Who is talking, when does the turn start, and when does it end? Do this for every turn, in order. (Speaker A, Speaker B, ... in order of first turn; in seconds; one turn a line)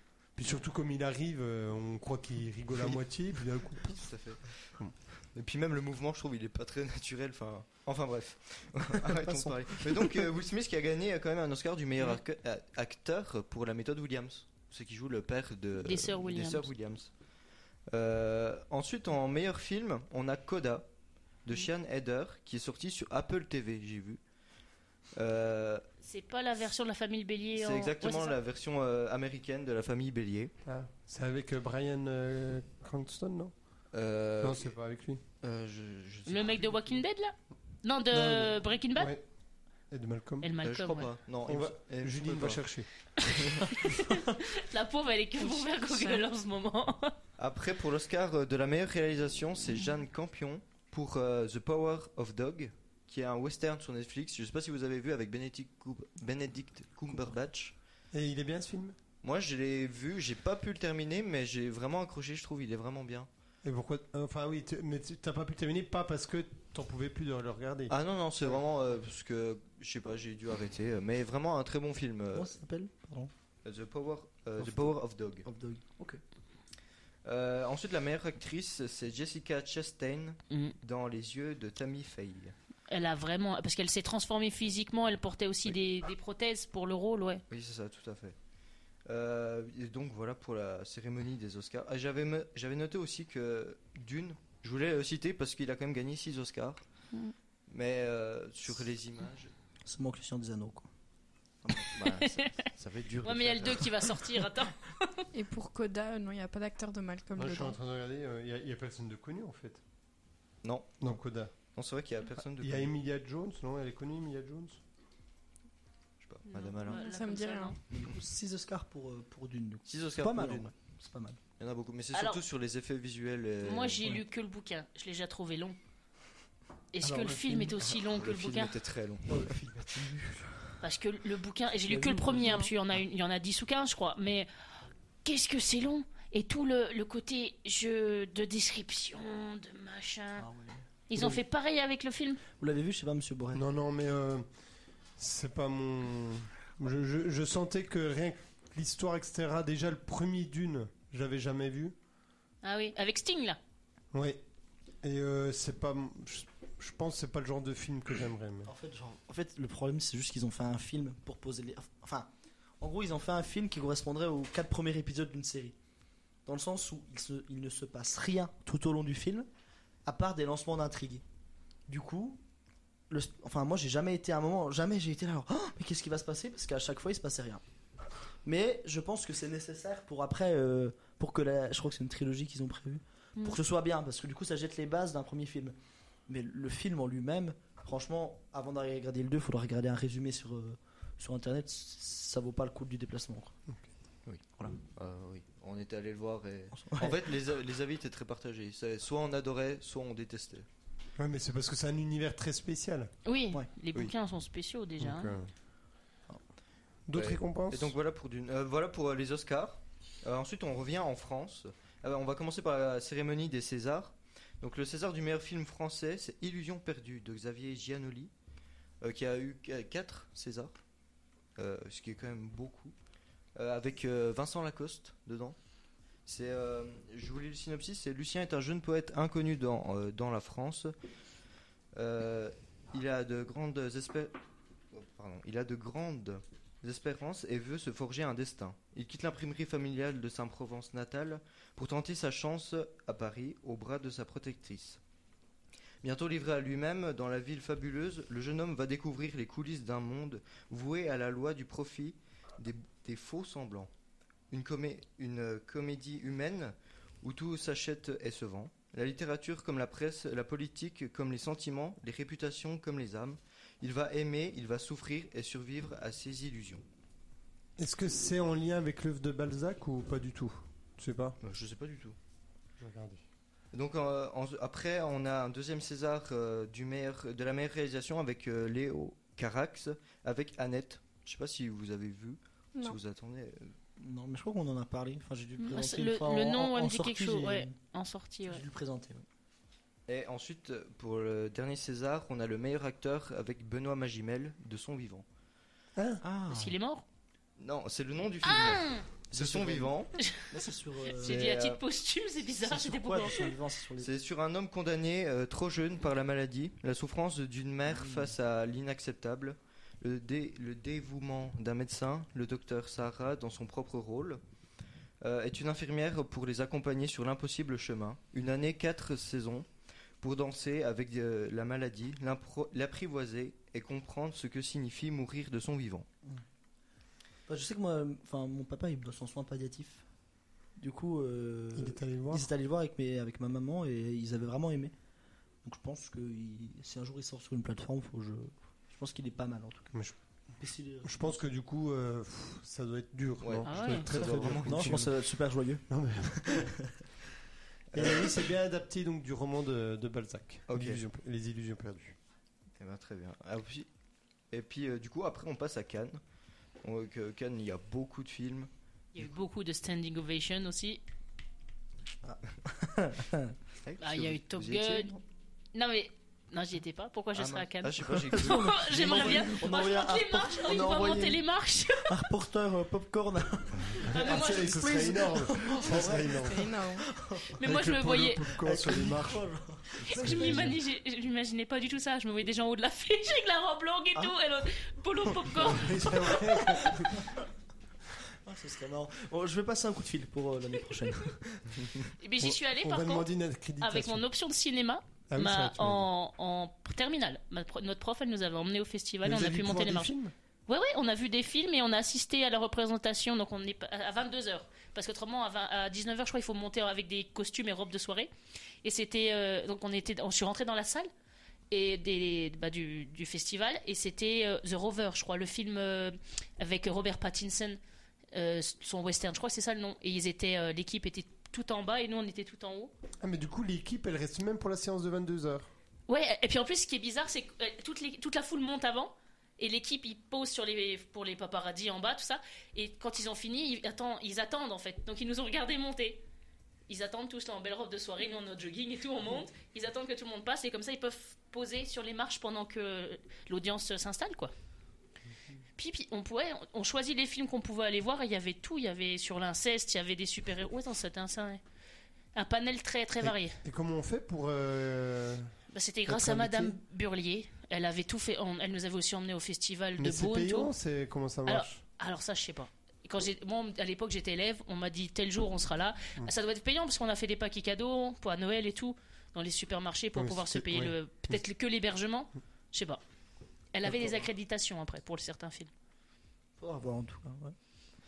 Speaker A: 0.4-4.1
Speaker B: 3.9-4.8
Speaker B: 5.3-17.1
Speaker C: 9.1-10.2
Speaker D: 15.8-16.7
Speaker B: 17.9-20.9
Speaker B: 21.4-24.2
Speaker B: 25.1-25.8
Speaker D: 26.0-28.4
Speaker B: 27.6-30.5
Speaker A: 30.6-33.5
Speaker B: 33.9-34.7
Speaker A: 34.4-35.2
Speaker B: 35.4-37.0
Speaker D: 36.3-39.1
Speaker A: 38.1-39.2
Speaker A: 39.9-40.5
Speaker D: 40.4-41.1
Speaker B: 40.6-42.6
Speaker A: 41.5-42.9
Speaker D: 43.8-47.1
Speaker B: 47.4-57.7
Speaker A: 58.1-59.0
Speaker B: 59.2-63.3
Speaker A: 63.6-67.9
Speaker B: 67.9-72.5
Speaker C: 72.3-73.3
Speaker B: 73.6-75.5
Speaker C: 74.6-76.2
Speaker B: 77.2-82.5
Speaker D: 82.9-87.4
Speaker B: 87.5-88.3
Speaker B: 89.0-96.8
Speaker B: 97.7-99.5
Speaker C: 99.8-100.8
Speaker C: 101.6-102.0
Speaker B: 101.9-103.9
Speaker D: 102.0-102.6
Speaker D: 103.2-105.2
Speaker E: 105.3-107.8
Speaker A: 107.4-109.8
Speaker B: 110.6-111.2
Speaker A: 111.0-111.5
Speaker B: 111.7-112.9
Speaker A: 112.6-114.8
Speaker B: 116.2-117.0
Speaker D: 116.5-117.8
Speaker E: 116.8-117.8
Speaker C: 117.9-121.4
Speaker B: 119.9-120.7
Speaker B: 121.6-124.2
Speaker D: 122.1-122.4
Speaker D: 123.6-125.8
Speaker D: 126.9-128.7
Speaker A: 127.0-127.7
Speaker B: 127.9-129.4
Speaker C: 129.3-130.7
Speaker D: 130.8-134.5
Speaker C: 131.9-132.7
Speaker D: 135.2-140.4
Speaker C: 140.4-141.4
Speaker D: 141.1-142.4
Speaker C: 142.6-143.6
Speaker A: 143.5-144.4
Speaker A: 145.2-151.9
Speaker D: 152.6-153.6
Speaker A: 154.1-154.4
Speaker A: 155.0-158.7
Speaker C: 158.7-162.3
Speaker C: 162.8-165.7
Speaker C: 166.4-169.5
Speaker C: 170.1-171.2
Speaker C: 171.9-172.4
Speaker C: 173.1-177.6
Speaker C: 178.4-185.8
Speaker C: 186.3-193.5
Speaker B: 194.2-200.7
Speaker C: 196.7-197.2
Speaker A: 201.2-203.1
Speaker D: 203.2-205.4
Speaker A: 205.0-205.5
Speaker A: 207.1-207.9
Speaker B: 207.1-218.3
Speaker B: 219.0-220.7
Speaker B: 221.6-222.9
Speaker B: 223.6-225.6
Speaker B: 226.2-230.9
Speaker B: 231.9-234.3
Speaker B: 234.9-245.0
Speaker B: 246.0-253.9
Speaker B: 254.5-266.8
Speaker A: 267.8-271.4
Speaker B: 271.4-272.1
Speaker A: 272.8-273.2
Speaker B: 273.7-283.7
Speaker C: 284.0-287.7
Speaker D: 285.6-288.6
Speaker C: 288.5-289.2
Speaker B: 290.1-295.2
Speaker A: 295.9-296.2
Speaker C: 296.2-296.6
Speaker D: 296.5-297.0
Speaker B: 297.6-300.1
Speaker D: 298.4-299.1
Speaker C: 299.3-299.9
Speaker D: 300.2-300.5
Speaker C: 300.5-301.4
Speaker D: 301.2-303.5
Speaker B: 301.2-301.8
Speaker C: 302.6-304.1
Speaker B: 304.0-314.4
Speaker C: 307.9-308.3
Speaker B: 315.2-319.6
Speaker B: 320.2-326.1
Speaker C: 327.5-330.0
Speaker C: 330.8-334.9
Speaker A: 331.7-332.5
Speaker C: 335.6-339.9
Speaker C: 340.6-341.4
Speaker A: 341.0-345.1
Speaker B: 343.4-345.1
Speaker D: 343.6-344.1
Speaker C: 344.1-346.9
Speaker A: 345.9-346.7
Speaker B: 347.9-348.3
Speaker A: 347.9-352.2
Speaker B: 350.7-351.0
Speaker B: 352.8-353.9
Speaker B: 354.5-356.2
Speaker B: 356.8-358.7
Speaker D: 359.1-361.0
Speaker C: 362.2-363.5
Speaker B: 363.8-365.2
Speaker D: 364.0-365.1
Speaker D: 365.7-372.1
Speaker B: 367.3-369.5
Speaker C: 368.1-371.4
Speaker C: 372.0-377.6
Speaker D: 374.1-375.0
Speaker A: 374.2-376.7
Speaker E: 376.4-377.0
Speaker D: 377.6-378.5
Speaker A: 377.6-379.4
Speaker C: 378.6-380.7
Speaker D: 380.0-386.6
Speaker A: 380.1-380.8
Speaker C: 385.3-385.9
Speaker A: 385.6-387.2
Speaker C: 388.4-392.1
Speaker D: 392.2-400.1
Speaker A: 392.4-394.2
Speaker A: 395.3-396.1
Speaker A: 399.2-400.3
Speaker D: 400.7-408.3
Speaker D: 408.8-411.1
Speaker D: 411.7-417.8
Speaker D: 418.3-422.9
Speaker A: 423.2-425.7
Speaker D: 426.1-436.2
Speaker D: 436.9-444.5
Speaker D: 445.8-451.6
Speaker D: 452.3-453.6
Speaker A: 453.2-455.5
Speaker D: 455.7-460.7
Speaker A: 456.1-456.8
Speaker A: 460.0-461.8
Speaker D: 461.5-473.0
Speaker A: 470.1-471.4
Speaker D: 473.7-475.7
Speaker C: 476.6-477.5